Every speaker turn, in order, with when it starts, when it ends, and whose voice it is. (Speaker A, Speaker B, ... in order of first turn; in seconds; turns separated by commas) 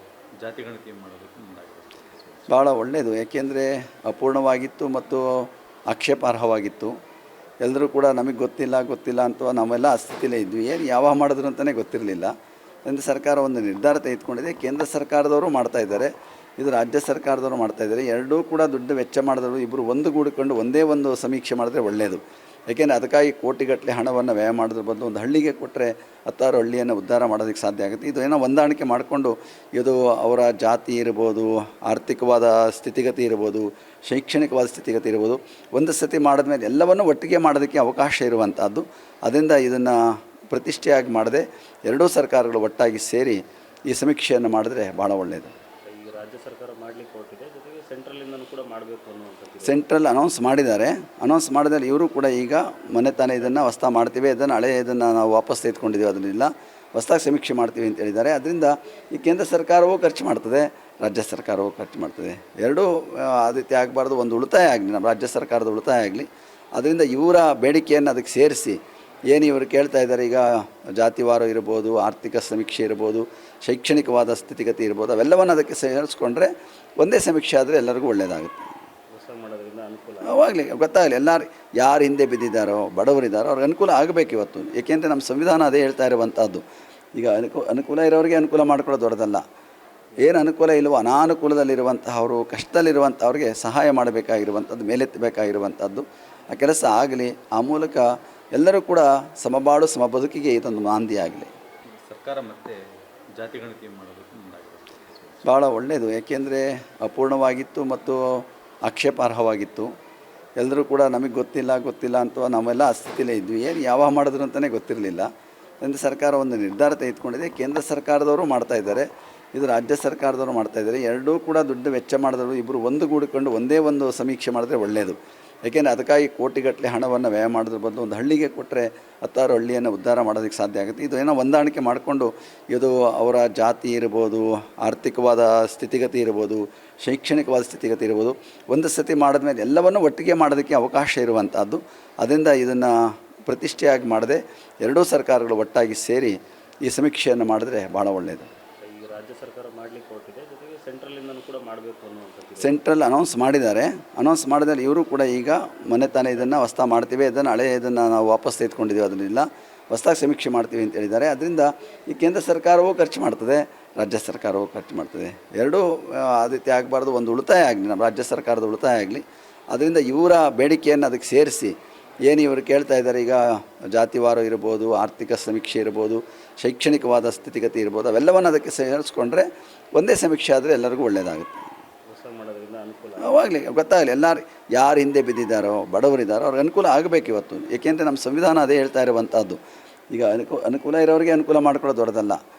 Speaker A: 0.4-2.6, Speaker B: 2.5-6.9, Speaker B: 7.6-12.3, Speaker B: 12.8-40.0, Speaker B: 40.5-45.5, Speaker C: 45.9-49.8, Speaker B: 49.6-68.8, Speaker B: 69.3-78.7, Speaker C: 79.1-80.5, Speaker B: 80.2-86.6, Speaker B: 87.2-89.4, Speaker B: 90.2-101.5, Speaker A: 102.0-102.8, Speaker A: 103.4-105.5, Speaker B: 105.5-109.9, Speaker B: 110.6-115.3, Speaker B: 115.8-142.9, Speaker B: 143.5-148.5, Speaker C: 148.8-152.8, Speaker B: 152.6-171.8, Speaker B: 172.3-181.7, Speaker C: 182.1-183.4, Speaker B: 183.2-189.6, Speaker B: 190.1-192.4